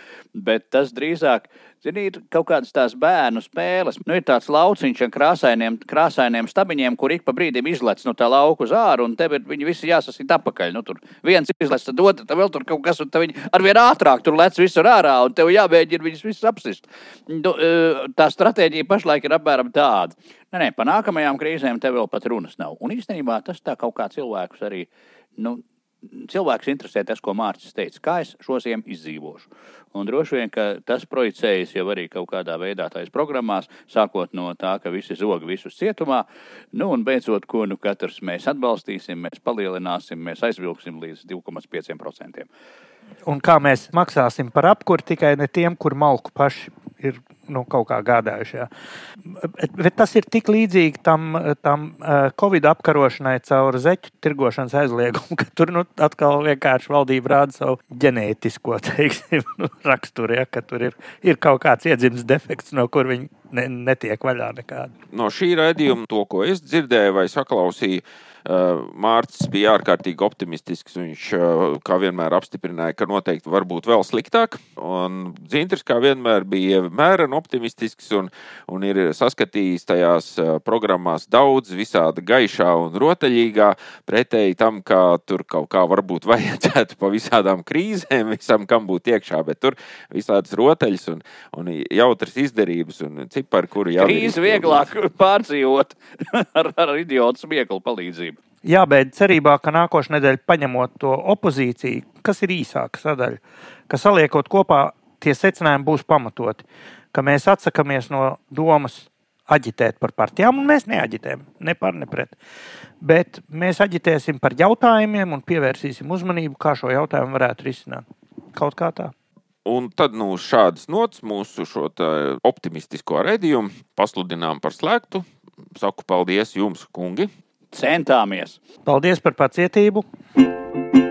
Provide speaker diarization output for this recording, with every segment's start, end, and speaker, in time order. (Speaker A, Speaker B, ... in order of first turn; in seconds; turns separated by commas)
Speaker A: 0.3-42.5, Speaker B: 43.2-48.7, Speaker B: 49.2-64.9, Speaker C: 65.1-94.9, Speaker A: 94.0-98.4, Speaker B: 98.6-112.3, Speaker B: 113.0-119.1, Speaker C: 119.6-127.3, Speaker A: 127.7-128.6, Speaker B: 128.8-130.0